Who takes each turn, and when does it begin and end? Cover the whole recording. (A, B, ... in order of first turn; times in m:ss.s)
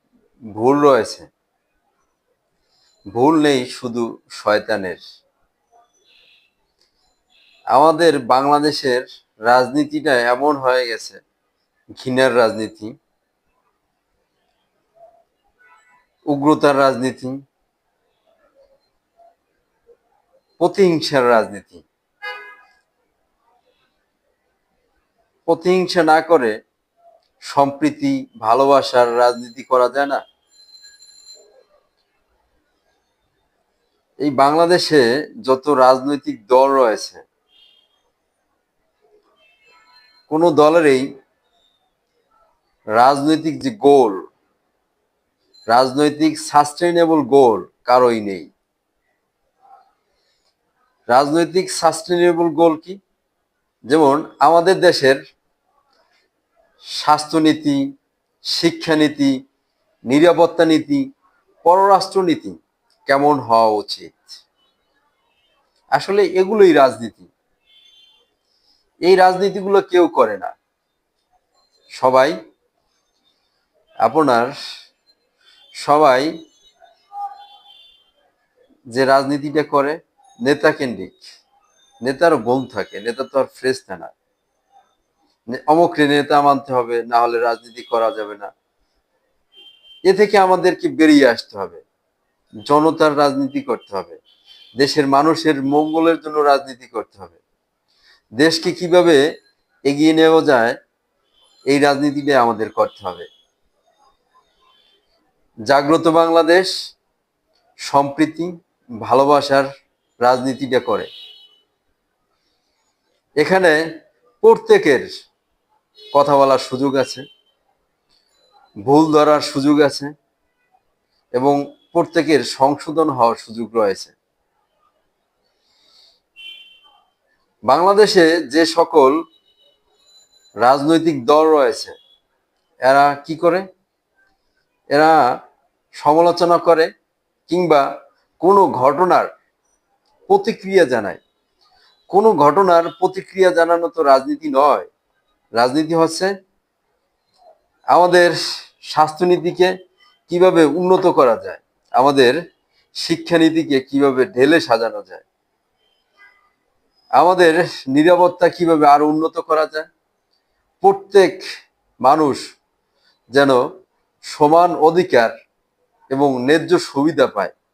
0:00.5-0:01.3 A
0:03.1-0:05.0 A
0:07.7-0:11.2 A
0:12.0-0:12.9 A
0:16.3-0:17.4 A
0:20.6-0:21.8 A
0:25.5-0:26.5 A
0:27.5-0:30.2 A
0:34.2-0:37.2 A
0:40.3-0:41.1 A
0:43.0-0:44.2 A
0:45.7-0:48.5 A
0:51.1-0:53.0 A
0:53.9-0:55.2 A
0:57.0-0:57.8 A
0:58.5-0:59.3 A
1:00.1-1:01.0 A
1:01.6-1:04.3 A
1:05.9-1:07.3 A
1:09.0-1:10.5 A
1:12.0-1:12.3 A
1:14.0-1:14.5 A
1:15.8-1:16.3 A
1:18.9-1:21.1 A
1:22.0-1:24.1 A
1:25.5-1:28.5 A
1:30.1-1:31.8 A
1:32.7-1:34.2 A
1:34.8-1:37.4 A
1:38.4-1:39.2 A
1:39.9-1:40.8 A
1:41.7-1:43.3 A
1:45.7-1:46.7 A
1:47.9-1:48.5 A
1:49.0-1:49.7 A
1:50.2-1:51.1 A
1:53.4-1:53.8 A
1:54.4-1:55.1 A
1:56.1-1:57.2 A
1:58.8-2:00.1 A
2:01.4-2:04.1 A
2:07.7-2:09.2 A
2:10.6-2:11.9 A
2:12.8-2:13.6 A
2:14.9-2:15.2 A
2:16.0-2:16.9 A
2:17.5-2:17.8 A
2:18.4-2:19.3 A
2:20.3-2:21.2 A
2:22.1-2:24.9 A
2:25.6-2:26.3 A
2:27.9-2:29.7 A
2:30.3-2:32.4 A
2:33.0-2:35.2 A
2:37.2-2:39.9 A
2:40.8-2:41.4 A
2:42.0-2:42.4 A
2:44.3-2:45.3 A
2:46.1-2:47.5 A